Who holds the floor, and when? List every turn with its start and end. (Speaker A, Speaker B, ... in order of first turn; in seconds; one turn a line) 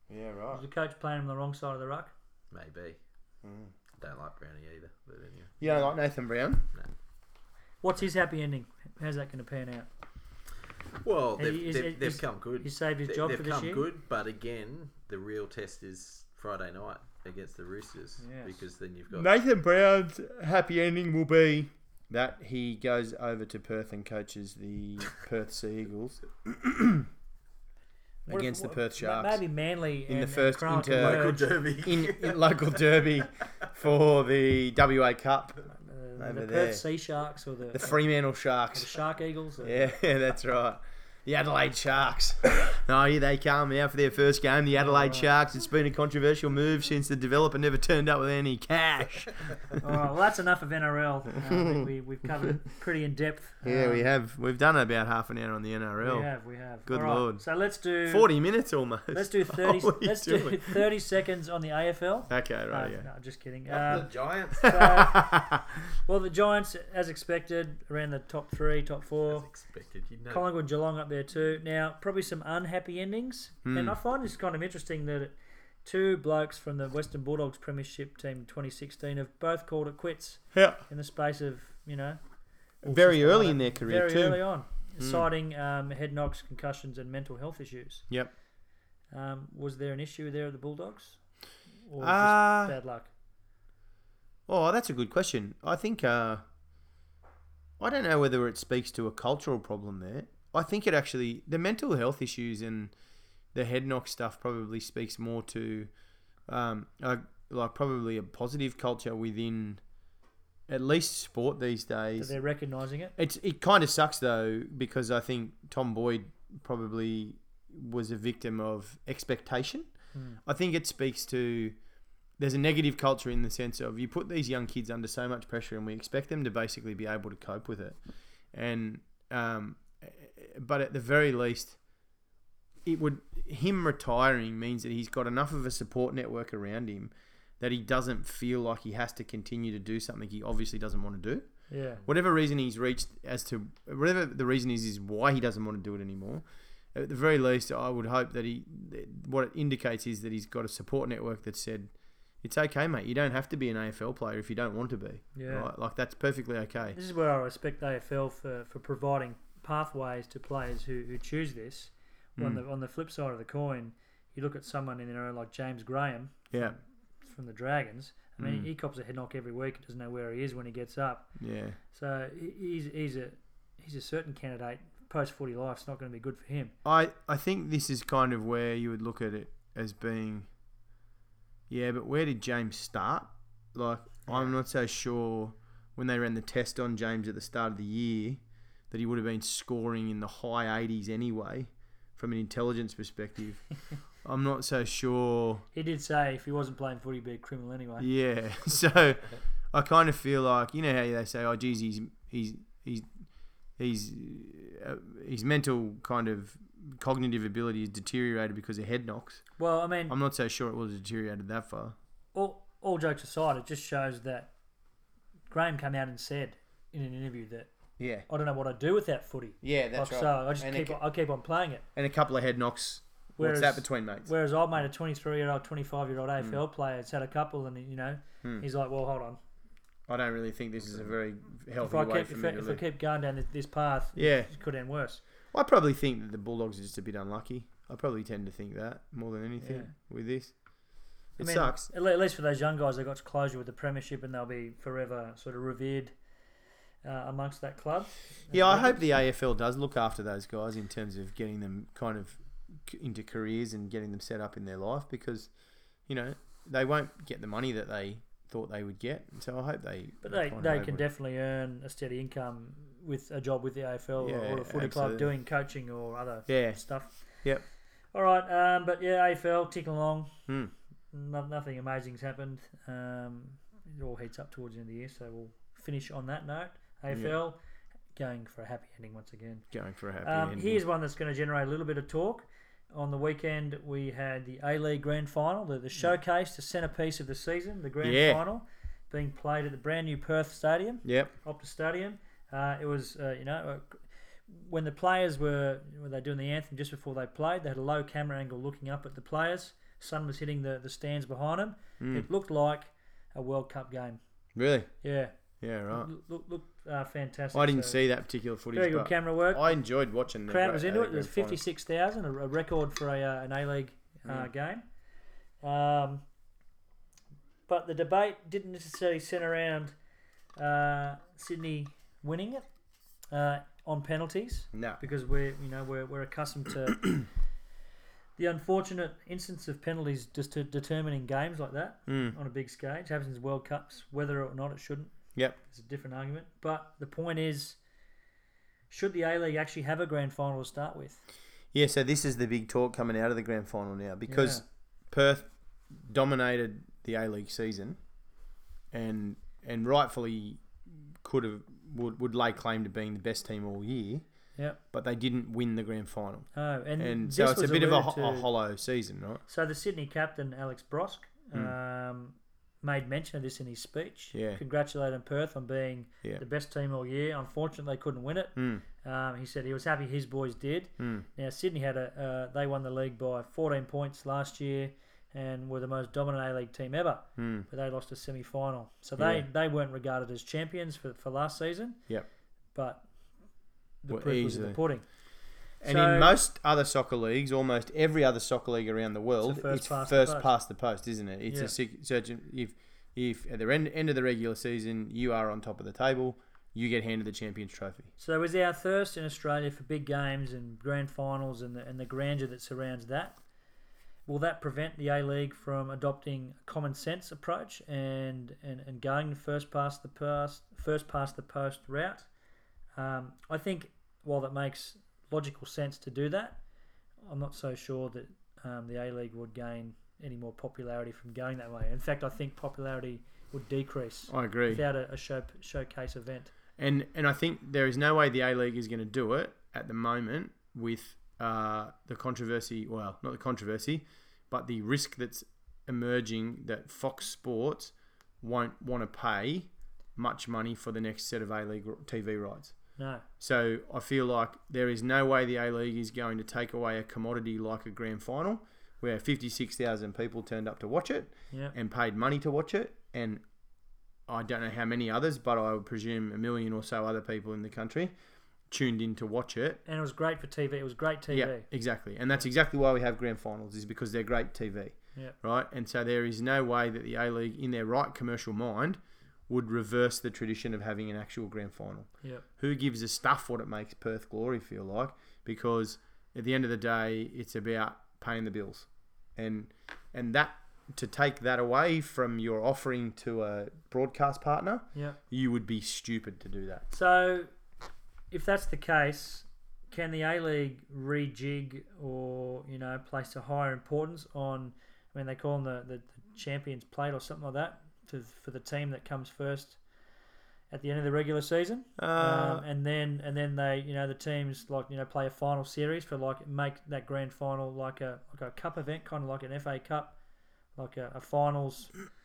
Speaker A: 0.1-0.6
Speaker B: 0.5-2.1
Speaker C: 2.5-3.0
Speaker A: 3.4-3.7
Speaker C: 4.0-5.5
Speaker A: 5.6-6.6
Speaker B: 5.6-5.9
Speaker B: 7.8-9.9
Speaker C: 11.0-19.3
Speaker B: 11.4-13.9
Speaker B: 18.2-18.6
Speaker A: 19.1-27.1
Speaker B: 28.2-31.5
Speaker A: 28.3-29.4
Speaker A: 30.1-35.6
Speaker C: 30.9-32.8
Speaker B: 35.8-38.0
Speaker A: 36.2-36.8
Speaker A: 37.7-38.9
Speaker B: 38.7-39.9
Speaker A: 39.6-49.8
Speaker B: 44.8-45.3
Speaker B: 49.8-54.1
Speaker A: 51.5-51.9
Speaker A: 53.6-57.4
Speaker B: 56.0-58.3
Speaker A: 58.0-60.8
Speaker B: 59.1-65.5
Speaker A: 62.3-63.1
Speaker C: 63.7-65.0
Speaker A: 64.6-65.6
Speaker B: 66.0-69.5
Speaker C: 69.2-70.5
Speaker B: 70.3-82.2
Speaker A: 73.6-74.0
Speaker A: 80.5-80.8
Speaker B: 82.8-88.0
Speaker A: 82.8-84.4
Speaker A: 85.0-85.3
Speaker B: 89.1-91.2
Speaker B: 91.8-93.1
Speaker A: 92.0-92.8
Speaker A: 94.5-96.4
Speaker A: 97.8-102.9
Speaker A: 103.5-105.9
Speaker A: 106.5-109.8
Speaker A: 110.7-112.3
Speaker B: 112.2-113.1
Speaker A: 113.2-119.9
Speaker B: 120.1-120.4
Speaker A: 120.4-121.8
Speaker A: 122.4-128.0
Speaker A: 128.5-131.8
Speaker A: 132.8-157.0
Speaker B: 141.7-142.0
Speaker B: 155.3-155.7
Speaker B: 156.9-171.3
Speaker A: 162.4-162.6
Speaker A: 168.4-168.7
Speaker A: 171.4-171.8
Speaker B: 171.9-176.7
Speaker A: 176.8-180.5
Speaker A: 181.7-195.6
Speaker B: 184.3-184.5
Speaker B: 195.7-198.1
Speaker A: 198.0-209.5
Speaker B: 209.6-210.2
Speaker A: 210.1-211.9
Speaker B: 212.3-214.5
Speaker B: 215.5-217.7
Speaker A: 218.0-218.3
Speaker B: 218.3-221.8
Speaker A: 219.6-221.0
Speaker A: 221.9-224.3
Speaker B: 223.4-229.4
Speaker A: 230.1-232.8
Speaker B: 231.8-235.2
Speaker A: 234.2-234.5
Speaker A: 235.5-240.5
Speaker B: 239.6-239.9
Speaker A: 241.3-241.9
Speaker B: 241.4-246.1
Speaker B: 247.0-249.1
Speaker A: 248.5-255.5
Speaker A: 256.1-261.0
Speaker B: 260.2-267.4
Speaker A: 264.2-265.3
Speaker A: 266.5-267.6
Speaker B: 268.1-270.4
Speaker B: 271.1-277.6
Speaker A: 277.1-277.3
Speaker B: 278.1-279.7
Speaker A: 279.7-280.8
Speaker B: 280.2-304.2
Speaker A: 288.0-288.4
Speaker A: 291.0-291.3
Speaker A: 302.0-302.3
Speaker A: 304.5-304.9
Speaker B: 305.0-305.3
Speaker A: 305.6-306.1
Speaker B: 305.9-308.0
Speaker A: 307.5-311.6
Speaker B: 308.7-309.7
Speaker B: 310.5-314.8
Speaker A: 314.2-314.5
Speaker B: 315.6-316.2
Speaker B: 317.7-319.9
Speaker B: 320.6-322.7
Speaker B: 323.3-327.2
Speaker A: 324.7-325.0
Speaker B: 328.4-337.8
Speaker A: 332.1-332.4
Speaker B: 338.9-341.2
Speaker A: 341.7-348.0
Speaker B: 344.3-344.6
Speaker A: 348.9-354.3
Speaker A: 354.9-359.4
Speaker B: 356.5-358.5
Speaker B: 359.5-382.0
Speaker A: 364.3-364.6
Speaker A: 368.6-368.8
Speaker A: 371.0-371.2
Speaker A: 377.4-377.7
Speaker A: 379.2-379.4
Speaker B: 382.7-383.1
Speaker B: 384.0-385.1
Speaker A: 384.1-384.8
Speaker B: 385.8-386.4
Speaker A: 385.8-398.1
Speaker B: 389.4-390.5
Speaker B: 391.5-391.7
Speaker B: 398.2-403.4
Speaker B: 404.2-412.3
Speaker B: 413.0-416.6
Speaker B: 417.2-426.5
Speaker A: 424.3-424.8
Speaker A: 426.8-453.4
Speaker B: 442.9-443.2
Speaker A: 454.3-458.1
Speaker A: 458.7-459.8
Speaker B: 459.9-461.7
Speaker A: 461.3-486.8
Speaker B: 484.9-485.2
Speaker B: 486.9-487.5
Speaker B: 488.3-499.8
Speaker B: 500.7-510.1
Speaker A: 502.0-502.6
Speaker B: 510.8-511.9